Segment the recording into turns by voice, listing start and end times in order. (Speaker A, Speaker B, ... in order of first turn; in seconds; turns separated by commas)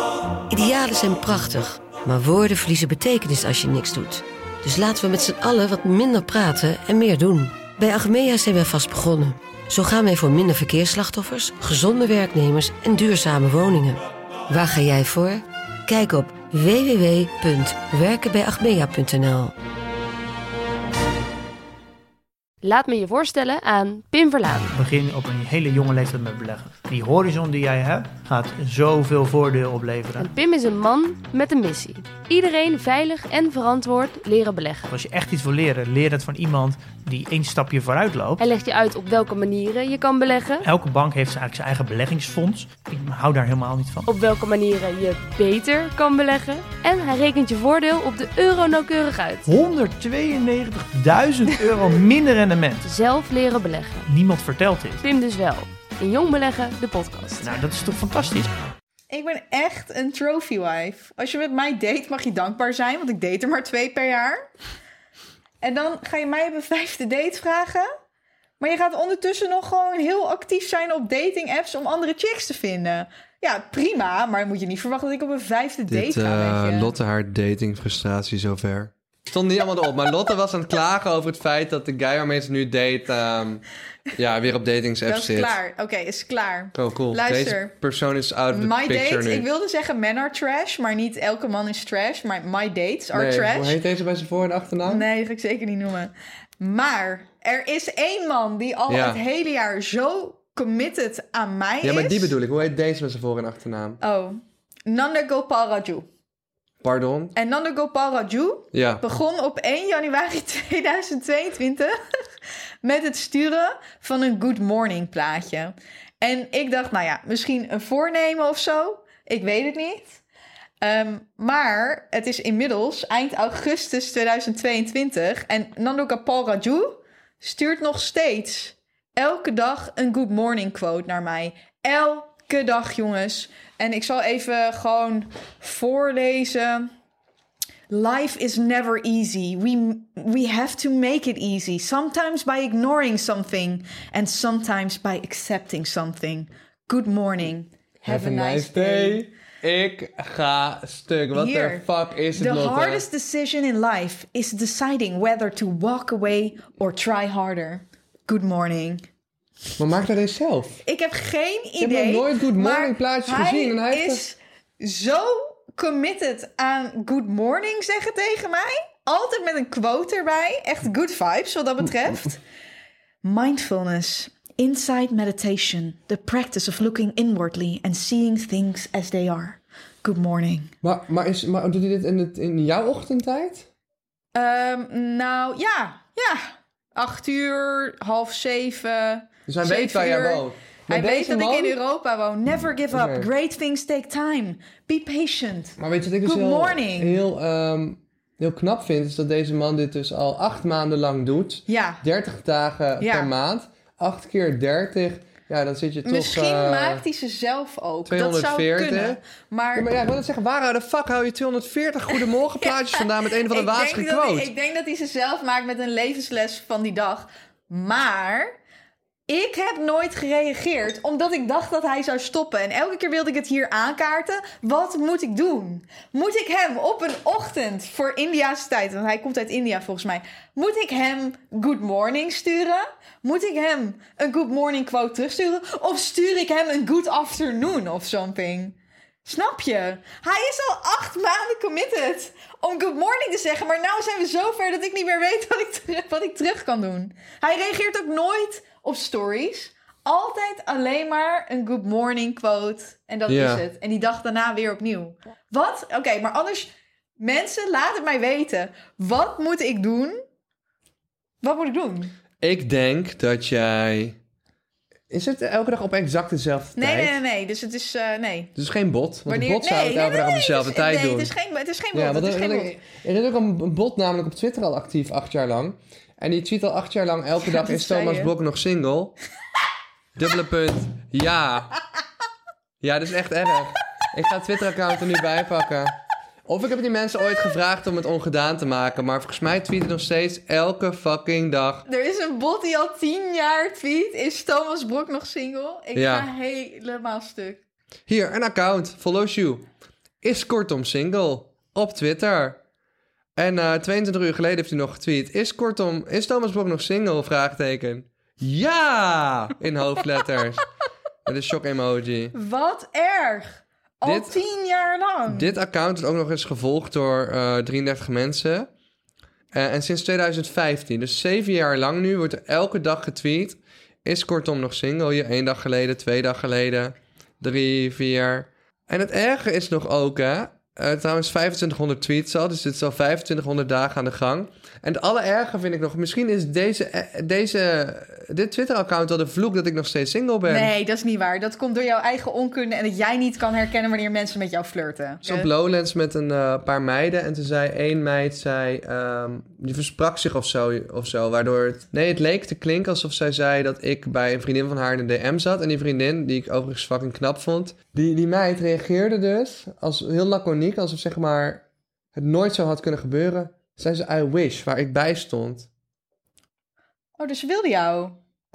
Speaker A: 0.5-19.5, Speaker B: 22.6-24.7, Speaker C: 24.7-30.3, Speaker B: 30.2-34.9, Speaker C: 34.9-38.4, Speaker B: 38.4-40.7, Speaker C: 40.6-44.1, Speaker B: 44.1-49.5, Speaker C: 49.5-52.9, Speaker B: 52.8-54.1, Speaker C: 54.1-55.0, Speaker B: 55.0-57.6, Speaker C: 57.4-58.5, Speaker D: 59.1-64.5, Speaker D: 65.6-67.9, Speaker D: 68.6-77.0, Speaker E: 75.9-83.6, Speaker E: 84.1-85.6, Speaker D: 85.1-87.7, Speaker E: 86.7-89.5, Speaker D: 88.5-93.8, Speaker E: 93.1-95.1, Speaker D: 94.8-102.4, Speaker E: 98.9-99.2, Speaker E: 101.8-104.0, Speaker D: 104.0-106.1, Speaker E: 106.8-107.3, Speaker D: 107.3-112.0, Speaker E: 108.7-109.0, Speaker D: 112.8-120.2, Speaker D: 120.8-136.9, Speaker D: 137.9-149.2, Speaker E: 148.0-153.1, Speaker D: 151.3-159.0, Speaker E: 159.8-160.8, Speaker D: 160.8-172.4, Speaker E: 161.8-164.2, Speaker D: 173.2-180.7, Speaker E: 180.8-183.7, Speaker D: 184.3-197.2, Speaker E: 189.5-191.8, Speaker E: 192.9-193.3, Speaker E: 195.8-207.0, Speaker D: 201.7-202.0, Speaker D: 203.0-203.3, Speaker D: 206.1-209.9, Speaker E: 208.1-209.2, Speaker E: 209.8-214.5, Speaker D: 212.5-218.6, Speaker D: 219.3-260.2, Speaker E: 253.3-253.7, Speaker D: 261.4-262.1, Speaker E: 262.4-264.2, Speaker E: 265.1-267.2, Speaker D: 266.8-268.5, Speaker E: 268.6-271.3, Speaker D: 269.3-272.8, Speaker E: 271.9-279.2, Speaker D: 277.4-278.3, Speaker E: 280.2-281.7, Speaker E: 282.8-291.8, Speaker D: 291.9-297.6, Speaker E: 295.9-296.3, Speaker E: 298.1-299.7, Speaker E: 300.2-302.6, Speaker E: 303.4-310.7, Speaker E: 311.2-312.3, Speaker D: 312.3-315.5, Speaker E: 314.0-314.4, Speaker E: 315.3-318.7, Speaker E: 319.5-340.7, Speaker D: 340.5-345.5, Speaker E: 345.2-365.7, Speaker D: 367.2-368.2